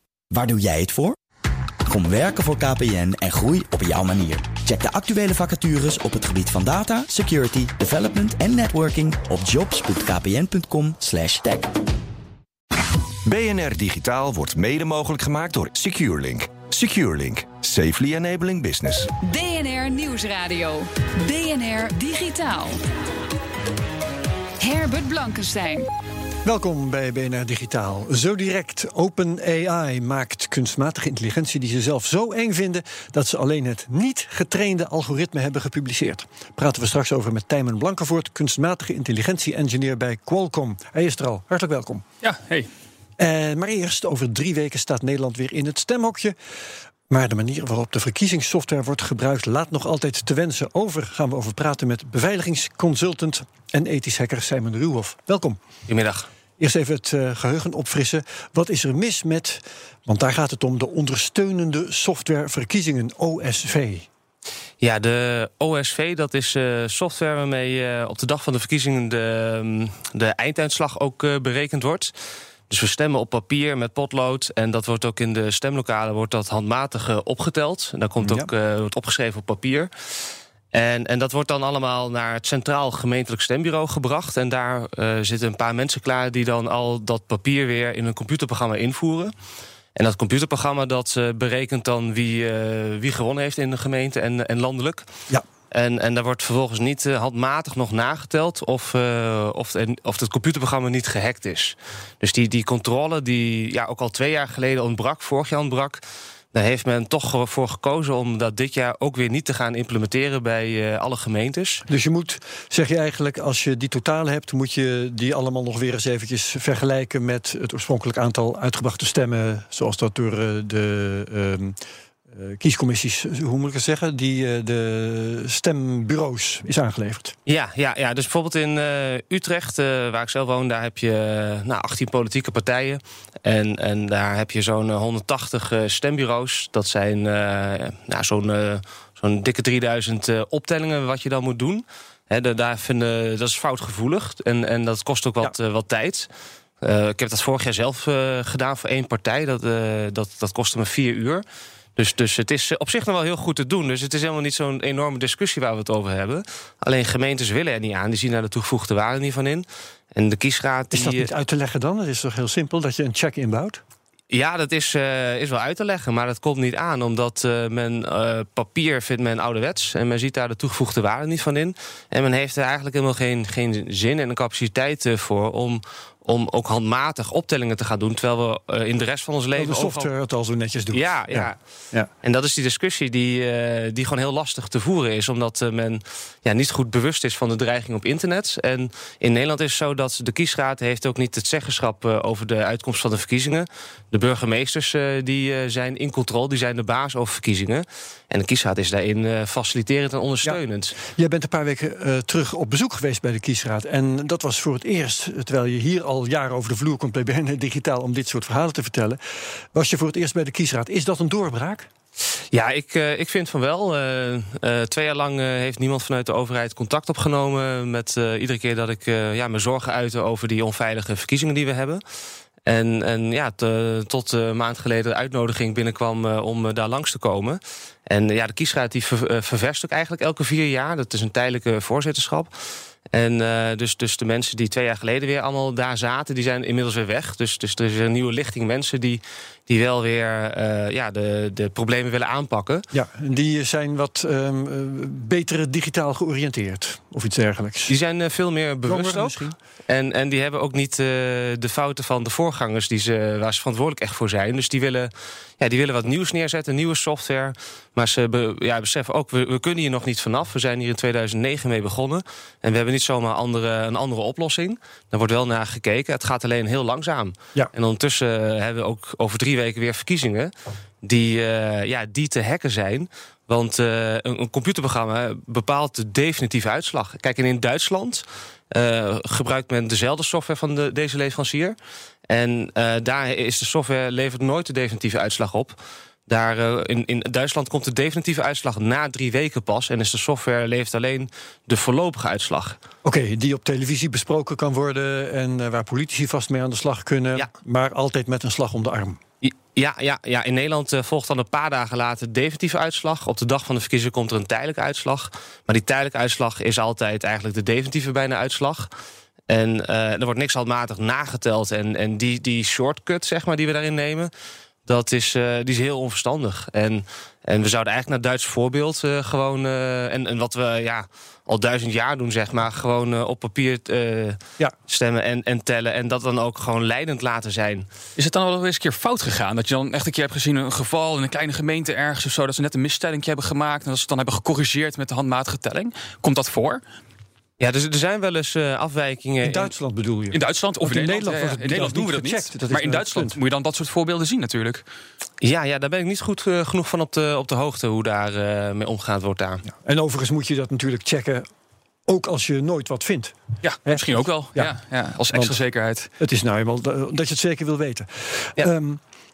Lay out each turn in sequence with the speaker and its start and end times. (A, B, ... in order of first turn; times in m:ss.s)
0:00.3-0:01.2 A
0:01.9-0:11.8 A
0:13.2-0:19.1 B
0:19.2-0:22.8 C
0:24.6-0:25.8 C
0:26.4-0:42.0 D
0:42.2-0:42.7 E
0:43.2-0:46.4 D
0:47.1-0:55.6 D
0:55.9-0:56.3 F
0:56.6-1:04.1 D
1:04.8-1:12.1 F
1:12.7-1:19.9 F
1:18.2-1:18.5 D
1:20.7-1:29.3 F
1:30.0-1:35.1 F
1:35.7-1:46.0 F
1:46.5-1:51.8 F
1:51.9-2:01.8 D
2:02.3-2:07.3 D
2:07.4-2:26.3 F
2:26.8-2:31.4 F
2:32.0-2:41.3 F
2:40.9-2:43.8 D
2:44.3-3:00.1 F
2:59.5-3:02.1 D
3:00.9-3:01.6 F
3:02.2-3:21.0 F
3:20.4-3:29.2 D
3:29.7-3:31.9 D
3:32.5-3:42.0 F
3:42.6-3:52.5 F
3:53.1-4:02.8 F
4:02.9-4:07.9 D
4:07.9-4:30.5 F
4:08.9-4:09.6 D
4:31.0-4:41.8 F
4:42.3-4:52.8 F
4:53.0-4:59.2 D
4:59.4-5:08.9 F
5:09.5-5:14.3 F
5:14.8-5:27.9 F
5:28.2-5:36.8 E
5:37.6-5:39.7 F
5:39.4-5:43.4 D
5:40.3-5:44.8 E
5:45.4-5:49.6 F
5:49.6-5:51.5 D
5:52.0-5:53.3 D
5:53.6-5:56.1 E
5:53.8-5:54.7 D
5:55.3-5:55.6 D
5:56.2-5:59.0 D